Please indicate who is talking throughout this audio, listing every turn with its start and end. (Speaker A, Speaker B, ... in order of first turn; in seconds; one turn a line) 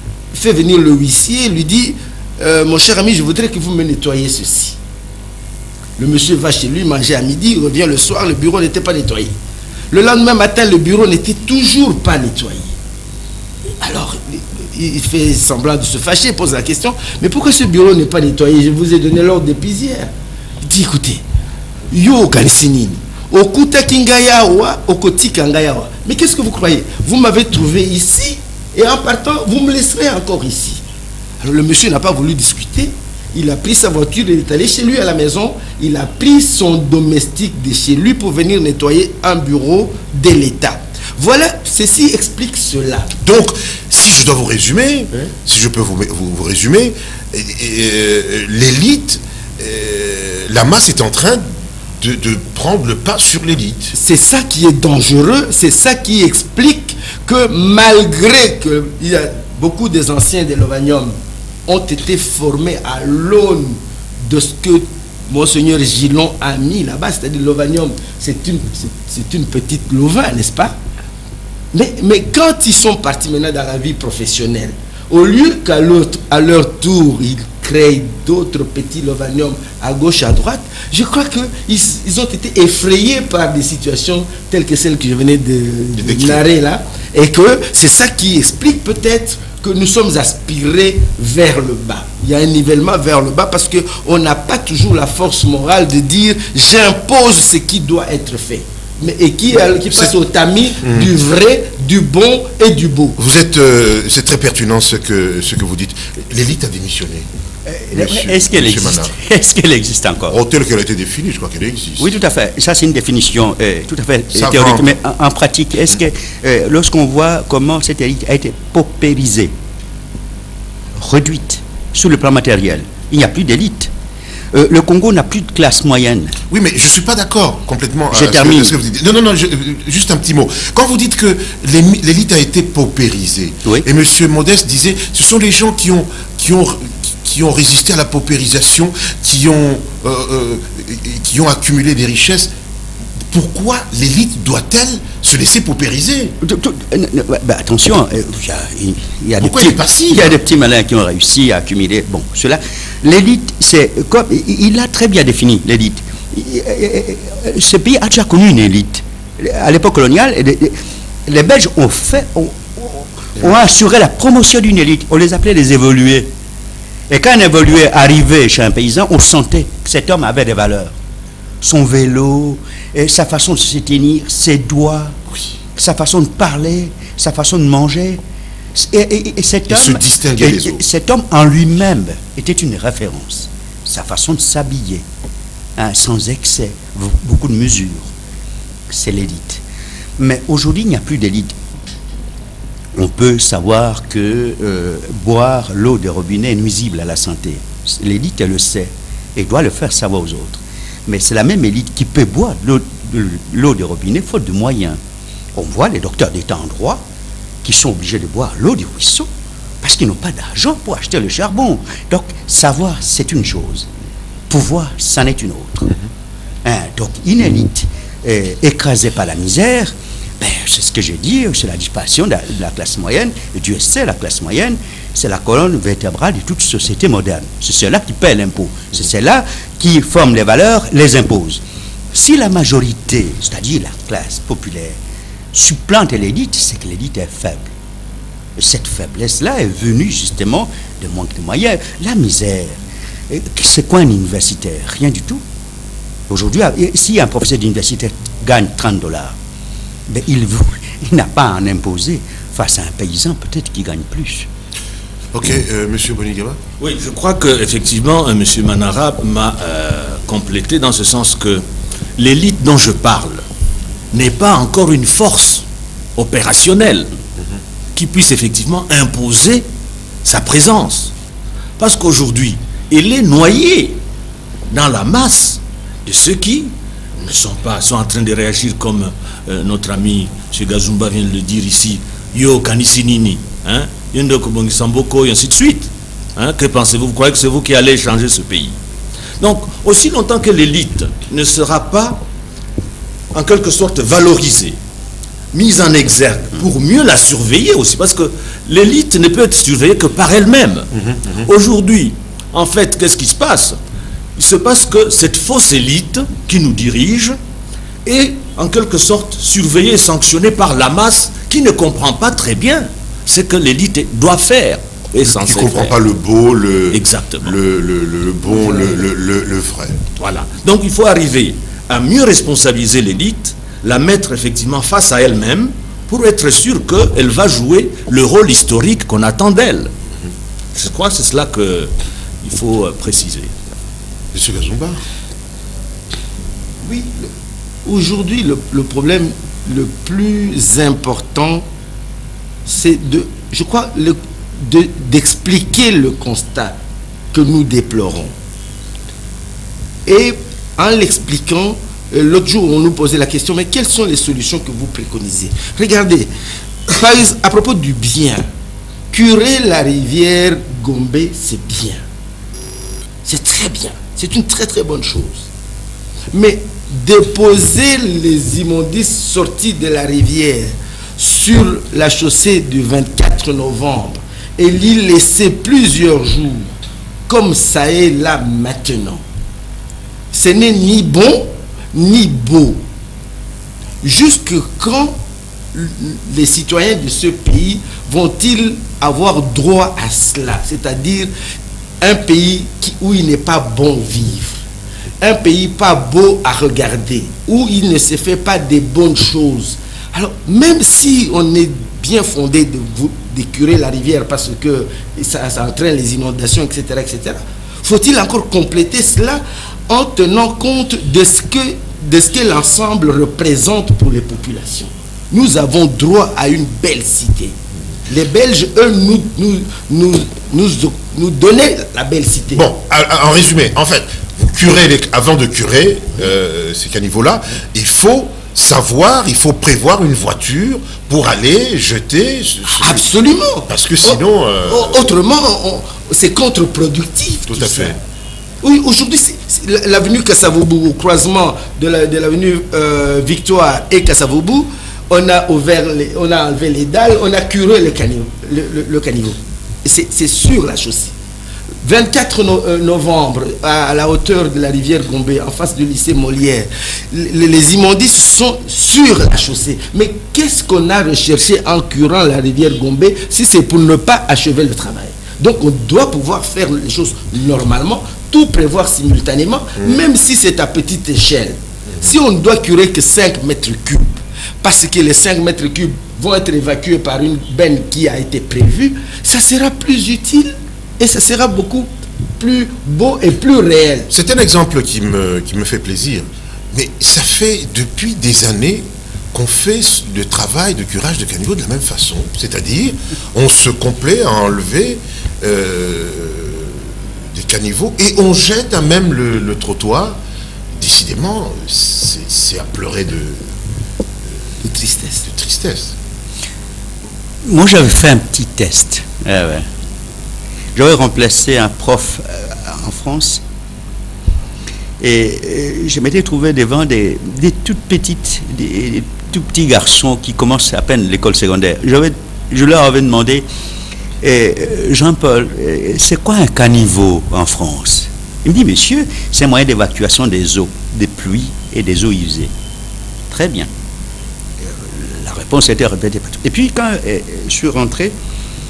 Speaker A: 0.3-4.8
Speaker A: 6.0-9.4
Speaker A: 9.9-12.8
Speaker A: 13.8-21.2
Speaker A: 21.9-30.8
Speaker A: 31.4-43.1
Speaker B: 43.2-51.5
Speaker B: 52.0-53.9
Speaker A: 53.9-70.8
Speaker A: 71.7-103.2
Speaker B: 86.0-86.4
Speaker B: 100.8-101.1
Speaker B: 103.2-107.3
Speaker C: 107.7-110.4
Speaker B: 107.9-109.1
Speaker B: 110.3-112.1
Speaker C: 112.0-119.5
Speaker B: 114.3-114.9
Speaker C: 121.0-123.9
Speaker C: 124.5-126.4
Speaker B: 126.5-142.5
Speaker C: 128.1-128.8
Speaker B: 143.3-146.3
Speaker C: 146.4-166.3
Speaker B: 149.4-150.3
Speaker C: 167.1-170.9
Speaker C: 171.6-175.2
Speaker C: 175.7-178.2
Speaker C: 178.8-185.1
Speaker B: 179.7-180.8
Speaker C: 185.8-188.1
Speaker C: 188.9-189.6
Speaker C: 190.2-191.6
Speaker C: 192.9-205.0
Speaker C: 205.6-207.0
Speaker C: 207.6-209.3
Speaker C: 209.8-213.9
Speaker C: 214.5-215.9
Speaker C: 216.6-231.6
Speaker C: 232.1-235.0
Speaker C: 235.5-237.7
Speaker C: 238.6-242.8
Speaker C: 243.3-245.4
Speaker C: 246.3-249.3
Speaker C: 250.1-254.5
Speaker B: 255.3-256.6
Speaker D: 256.8-261.6
Speaker D: 262.2-263.4
Speaker D: 264.1-267.1
Speaker D: 267.9-269.7
Speaker D: 270.2-271.1
Speaker D: 271.8-274.0
Speaker D: 274.7-288.8
Speaker D: 289.4-292.2
Speaker D: 293.3-294.8
Speaker D: 295.5-303.8
Speaker B: 301.0-301.4
Speaker D: 304.4-307.4
Speaker D: 308.1-316.0
Speaker B: 315.3-320.0
Speaker D: 316.9-317.6
Speaker D: 320.2-329.9
Speaker D: 330.8-333.5
Speaker B: 334.3-335.0
Speaker A: 336.8-337.3
Speaker A: 337.9-341.6
Speaker A: 342.7-346.8
Speaker A: 347.3-348.3
Speaker A: 350.1-356.3
Speaker A: 356.9-358.5
Speaker A: 359.1-362.0
Speaker A: 363.2-365.5
Speaker A: 366.3-376.7
Speaker A: 377.3-379.2
Speaker A: 380.3-382.8
Speaker A: 384.0-385.2
Speaker A: 385.7-391.3
Speaker A: 392.0-394.6
Speaker A: 395.2-422.7
Speaker B: 422.6-433.1
Speaker A: 432.7-438.0
Speaker B: 433.7-435.1
Speaker B: 437.5-438.0
Speaker A: 438.6-451.1
Speaker A: 451.8-484.1
Speaker B: 484.1-500.2
Speaker B: 500.8-503.5
Speaker A: 504.6-505.3
Speaker B: 505.3-505.9
Speaker C: 507.4-509.7
Speaker C: 510.8-513.4
Speaker C: 515.0-523.5
Speaker C: 524.2-532.5
Speaker C: 533.3-533.7
Speaker C: 534.7-538.1